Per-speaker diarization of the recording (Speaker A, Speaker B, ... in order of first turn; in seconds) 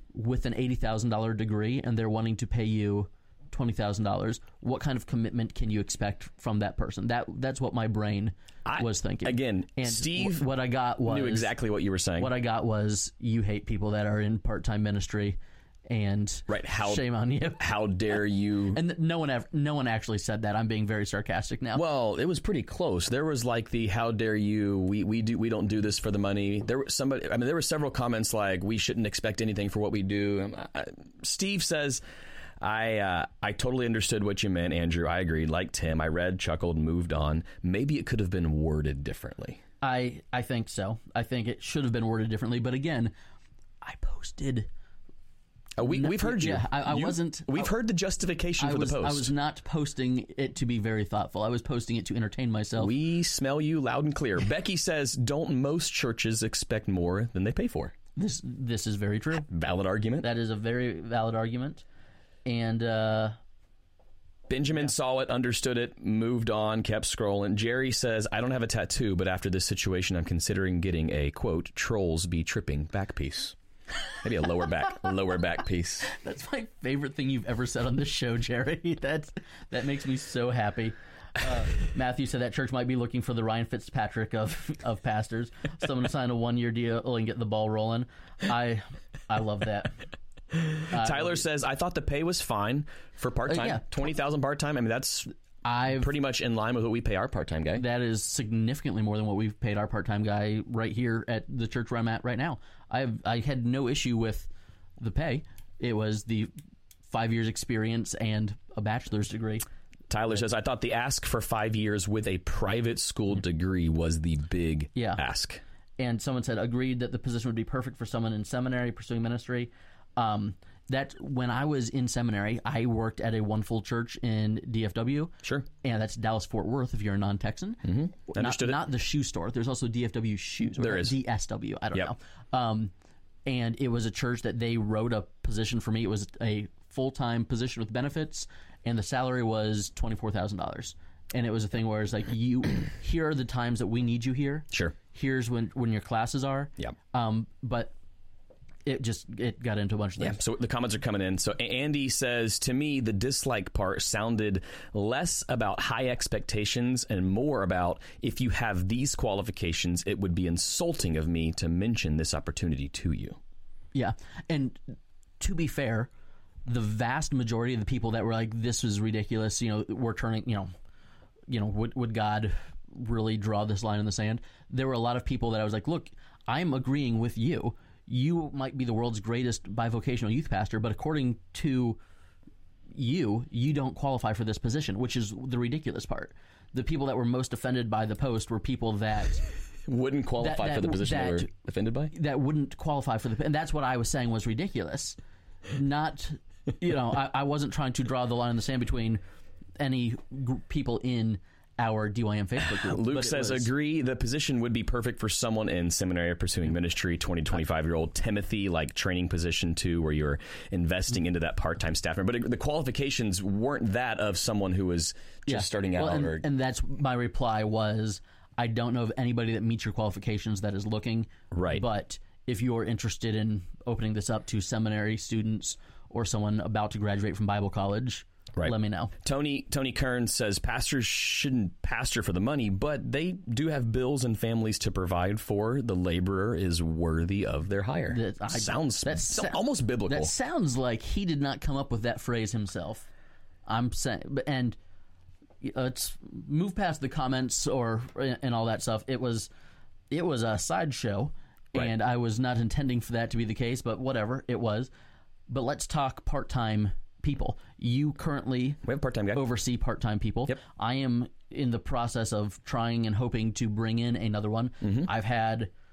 Speaker A: 0.1-11.5, 12.2-15.4, 15.9-17.6, 18.7-21.8, 39.8-43.1, 43.8-44.7, 45.8-47.7, 48.6-52.9, 58.1-59.5, 60.2-61.8, 62.4-63.4, 76.0-90.1, 90.9-91.4, 93.5-93.8, 95.6-96.1, 97.7-104.5, 105.0-106.5, 107.1-109.6, 114.9-115.2, 116.0-132.9, 133.4-147.9, 148.8-150.4, 163.9-166.1, 166.7-170.7, 171.5-182.0, 182.9-189.5, 190.4-191.5, 192.1-195.2, 195.7-199.2, 199.8-203.7, 215.5-229.1, 238.1-243.1, 243.7-244.8, 245.6-249.5, 250.1-254.9, 255.5-258.8, 259.3-265.7
Speaker B: 8.7-10.5, 11.0-12.3, 16.5-17.0, 17.6-18.8, 21.7-32.0, 32.6-39.6, 45.8-49.3, 52.8-57.9, 59.5-60.3, 64.5-73.5, 74.2-76.1, 90.7-95.3, 95.9-97.8, 110.1-115.6, 127.8-128.8, 130.8-131.1, 150.2-163.4, 189.8-192.1, 202.6-216.4, 221.5-221.8, 228.6-240.3, 258.8-259.4, 264.8-265.1